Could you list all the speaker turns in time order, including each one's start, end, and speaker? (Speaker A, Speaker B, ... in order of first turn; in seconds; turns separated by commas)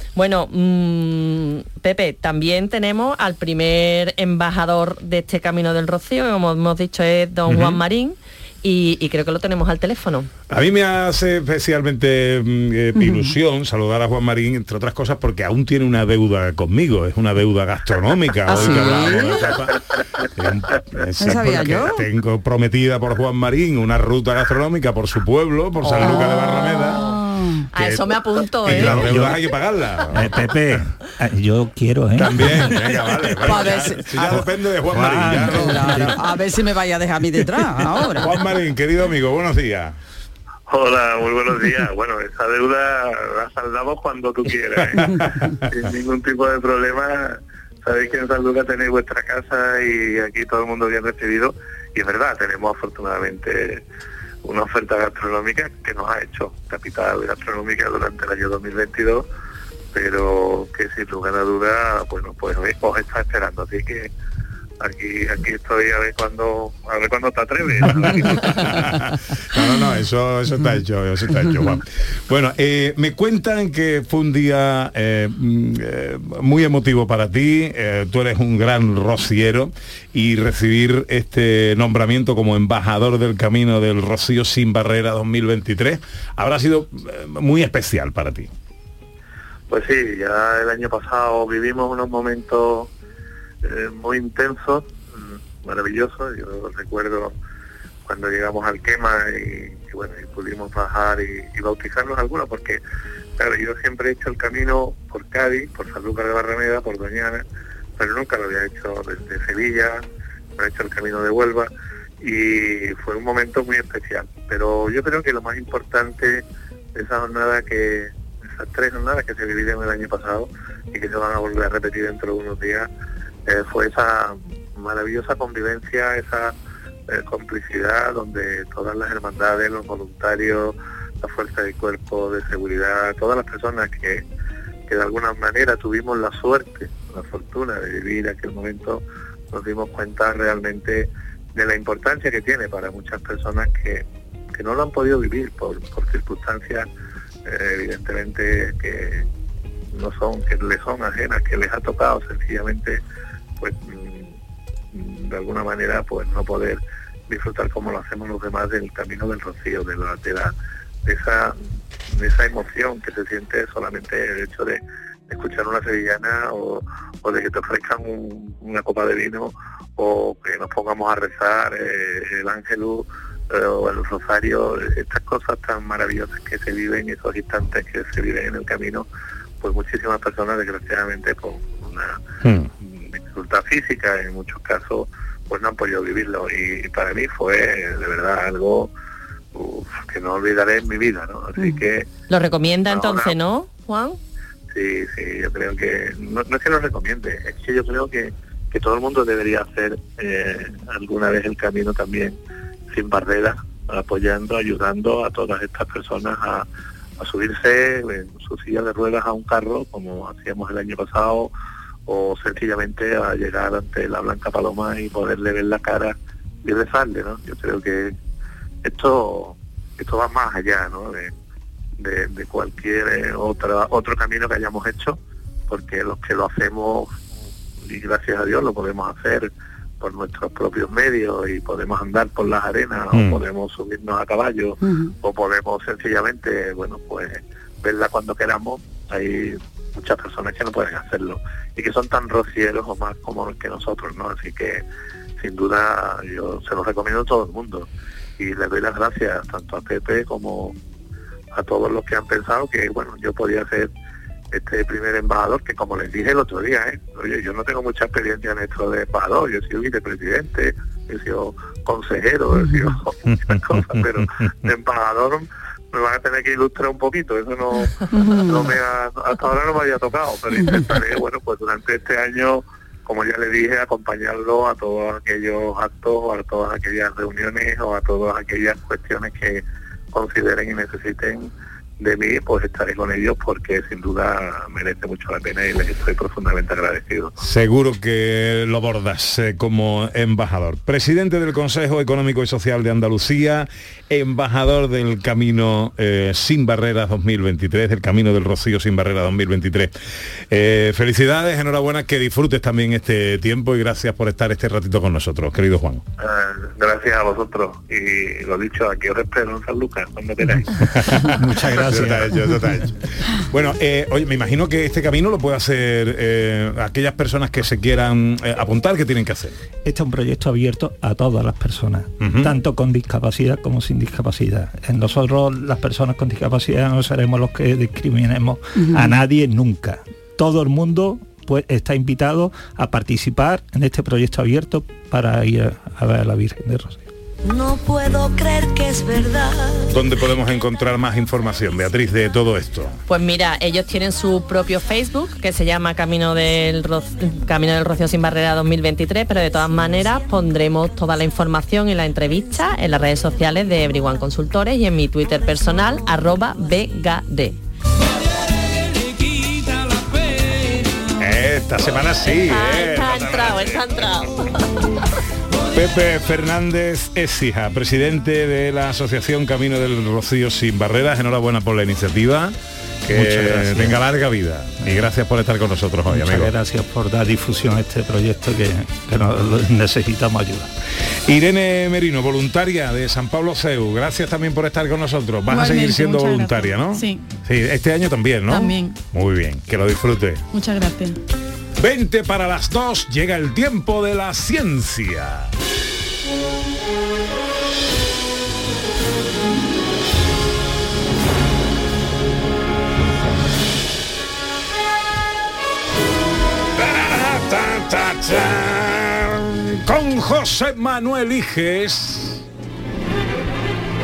Speaker A: 0.1-10.3, Speaker B: 7.5-7.8, Speaker B: 10.5-19.8, Speaker C: 12.9-13.3, Speaker C: 18.5-19.5, Speaker B: 20.4-27.0, Speaker C: 21.2-22.0, Speaker A: 25.9-27.1, Speaker C: 26.0-27.7, Speaker A: 27.7-29.1, Speaker B: 27.8-28.0, Speaker B: 28.6-30.5, Speaker D: 28.7-29.4, Speaker D: 30.1-32.8, Speaker B: 32.1-36.2, Speaker C: 33.4-34.4, Speaker D: 34.9-36.1, Speaker C: 35.4-38.3, Speaker B: 38.2-40.0, Speaker E: 40.7-45.2, Speaker E: 45.7-53.8, Speaker E: 54.4-59.3, Speaker E: 59.9-64.1, Speaker E: 64.8-68.7, Speaker B: 68.1-88.5, Speaker E: 89.7-92.9, Speaker E: 93.6-95.0, Speaker E: 95.6-97.3, Speaker E: 98.1-102.8, Speaker E: 103.4-107.4, Speaker E: 108.0-110.0, Speaker E: 110.6-111.7, Speaker E: 112.2-116.4, Speaker E: 117.0-122.9, Speaker E: 123.5-126.5, Speaker E: 127.1-134.2, Speaker E: 134.9-146.9, Speaker E: 147.5-149.3, Speaker E: 149.9-153.0, Speaker E: 153.6-154.3, Speaker E: 154.9-160.5, Speaker E: 161.1-161.6, Speaker E: 162.1-179.1, Speaker E: 179.6-182.2, Speaker B: 182.4-182.7, Speaker E: 182.8-188.9, Speaker E: 189.6-192.1, Speaker C: 191.6-191.8, Speaker A: 192.3-194.2, Speaker E: 192.9-193.4, Speaker E: 194.7-202.4, Speaker E: 202.9-206.7, Speaker E: 207.2-211.5, Speaker E: 212.1-218.1, Speaker E: 218.8-221.3, Speaker E: 222.0-227.1, Speaker E: 227.8-229.5, Speaker E: 230.0-244.8, Speaker B: 233.1-233.4, Speaker C: 234.8-235.1, Speaker E: 245.4-250.8, Speaker E: 251.5-253.9, Speaker E: 254.5-287.3, Speaker C: 262.6-262.9, Speaker C: 268.1-268.7, Speaker B: 287.4-299.9, Speaker B: 300.5-306.0, Speaker E: 306.2-310.9, Speaker B: 311.0-319.5, Speaker D: 311.4-312.3, Speaker D: 319.9-337.0, Speaker B: 322.2-322.5, Speaker C: 328.8-329.2, Speaker F: 337.4-340.0, Speaker B: 339.9-343.0, Speaker A: 343.1-357.6, Speaker B: 361.2-364.0, Speaker A: 362.2-364.6, Speaker B: 365.7-376.5, Speaker D: 373.1-374.0, Speaker D: 376.1-380.7, Speaker B: 381.3-390.4, Speaker G: 385.5-387.2, Speaker G: 388.5-389.0, Speaker G: 390.5-391.2, Speaker B: 391.8-395.5, Speaker B: 406.8-412.4